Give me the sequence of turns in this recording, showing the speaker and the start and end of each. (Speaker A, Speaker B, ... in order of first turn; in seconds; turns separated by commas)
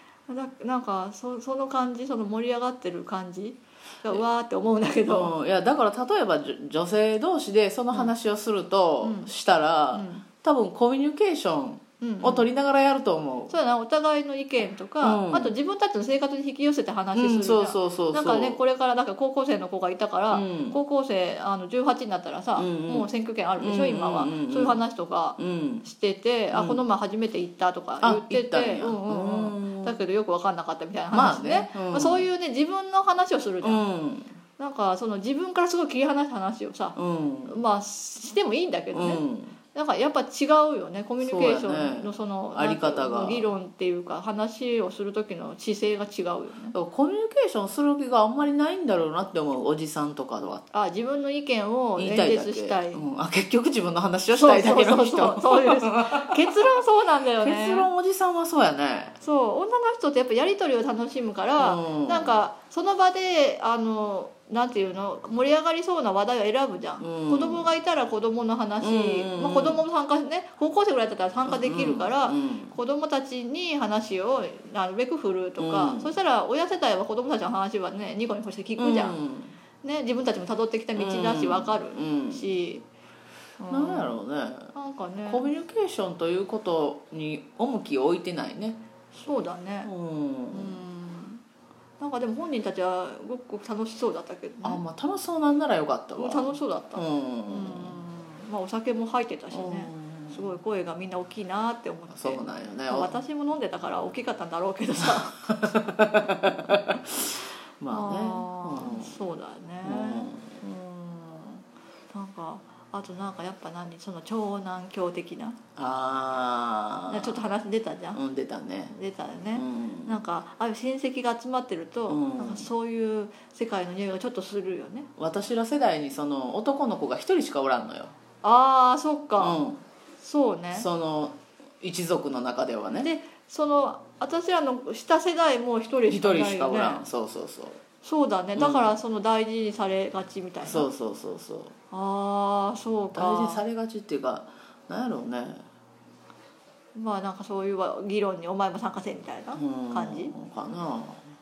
Speaker A: 0.3-5.3, Speaker B: 5.1-13.6, Speaker A: 9.0-9.3, Speaker A: 9.9-10.2, Speaker A: 12.0-12.4, Speaker A: 13.5-33.8, Speaker B: 15.0-15.5, Speaker B: 17.1-18.6, Speaker B: 20.3-20.8, Speaker B: 22.5-24.8, Speaker B: 25.4-25.9, Speaker B: 26.5-26.8, Speaker B: 28.0-30.0, Speaker B: 31.1-32.2, Speaker B: 33.6-34.3, Speaker A: 34.6-37.0, Speaker B: 37.0-37.6, Speaker A: 37.5-39.2, Speaker B: 38.9-39.5, Speaker A: 39.7-46.7, Speaker B: 41.2-43.5, Speaker B: 46.7-50.6, Speaker A: 50.7-53.0, Speaker B: 52.0-56.7, Speaker A: 54.3-57.9, Speaker B: 57.4-59.2, Speaker A: 59.2-79.2, Speaker B: 61.6-62.4, Speaker B: 67.0-67.7, Speaker B: 68.8-69.8, Speaker B: 71.4-72.8, Speaker B: 75.6-76.1, Speaker B: 78.8-79.5, Speaker A: 79.8-82.8, Speaker B: 81.0-82.5, Speaker A: 83.6-84.2, Speaker B: 83.7-84.7, Speaker A: 84.7-85.5, Speaker B: 85.3-88.8, Speaker A: 89.1-89.9, Speaker B: 89.8-90.8, Speaker A: 90.5-91.4, Speaker A: 92.0-94.8, Speaker B: 94.6-98.0, Speaker A: 96.2-105.5, Speaker B: 99.5-100.5, Speaker B: 102.1-103.1, Speaker B: 105.0-109.3, Speaker A: 107.9-115.6, Speaker B: 109.8-110.6, Speaker B: 115.8-117.4, Speaker A: 117.1-118.2, Speaker B: 118.1-118.9, Speaker A: 118.9-125.1, Speaker B: 119.5-120.2, Speaker B: 122.1-122.7, Speaker B: 125.2-128.2, Speaker A: 128.4-129.6, Speaker B: 129.4-129.8, Speaker A: 130.2-130.9, Speaker B: 130.7-133.1, Speaker A: 133.0-137.0, Speaker B: 136.1-137.8, Speaker A: 138.0-140.9, Speaker B: 138.6-138.9, Speaker B: 140.6-141.7, Speaker A: 141.9-143.6, Speaker B: 143.1-145.7, Speaker A: 146.9-150.3, Speaker B: 149.6-151.3